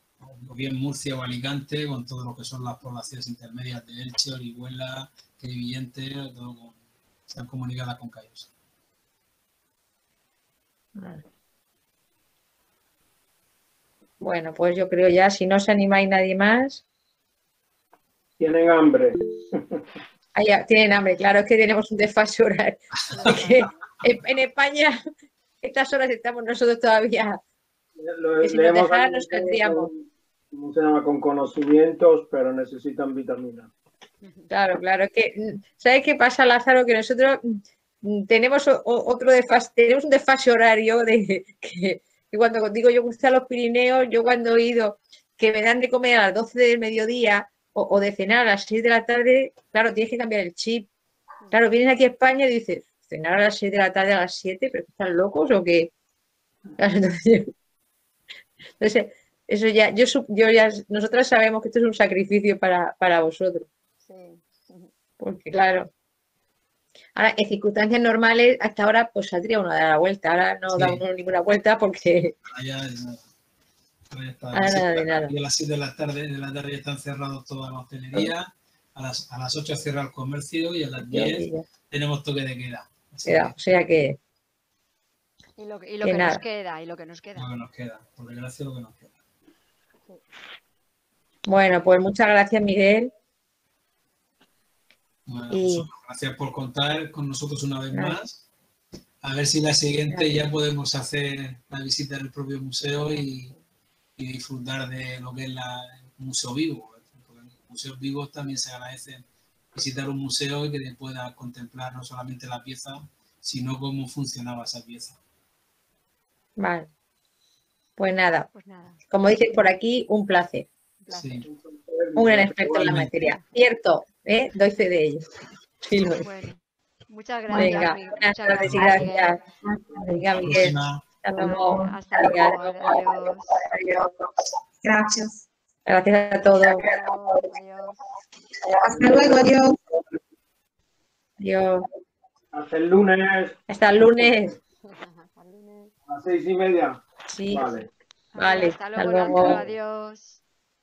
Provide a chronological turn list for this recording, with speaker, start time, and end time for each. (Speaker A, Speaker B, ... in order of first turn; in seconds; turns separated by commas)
Speaker A: 0.2-8.5, Speaker B: 10.9-11.2, Speaker B: 14.2-16.8, Speaker C: 18.4-19.6, Speaker B: 20.3-25.0, Speaker D: 23.1-23.7, Speaker B: 25.6-27.4, Speaker C: 28.0-33.7, Speaker B: 28.4-29.9, Speaker D: 34.2-34.5, Speaker B: 34.5-50.9, Speaker B: 51.5-55.9, Speaker B: 56.8-57.5, Speaker B: 58.8-63.7, Speaker D: 64.0-64.9, Speaker B: 65.2-65.9, Speaker B: 67.2-72.3, Speaker A: 70.7-71.0, Speaker A: 72.5-73.3, Speaker A: 74.1-83.5, Speaker B: 74.5-75.3, Speaker B: 81.1-81.7, Speaker B: 83.2-84.2, Speaker D: 85.6-87.5, Speaker B: 86.0-86.4, Speaker A: 87.3-89.1, Speaker B: 91.5-93.1, Speaker A: 95.3-98.4, Speaker B: 95.5-95.9, Speaker B: 97.9-98.2, Speaker A: 99.2-103.5, Speaker D: 103.1-103.6, Speaker A: 104.2-115.2, Speaker B: 116.6-116.9, Speaker B: 118.0-118.5, Speaker D: 118.5-119.0, Speaker B: 119.1-120.7, Speaker D: 121.0-121.5, Speaker A: 121.1-121.5, Speaker C: 121.4-123.2, Speaker B: 122.2-125.3, Speaker B: 125.8-126.2, Speaker D: 126.2-129.4, Speaker B: 127.5-134.1, Speaker A: 130.3-131.0, Speaker D: 131.5-133.5, Speaker B: 134.8-135.3, Speaker B: 135.8-136.9, Speaker D: 136.8-138.0, Speaker B: 138.7-139.8, Speaker B: 141.4-141.8, Speaker C: 142.5-143.6, Speaker B: 143.7-144.5, Speaker D: 144.8-145.9, Speaker C: 146.1-147.9, Speaker B: 147.3-147.8, Speaker D: 148.3-150.4, Speaker B: 148.3-149.6, Speaker C: 149.3-149.7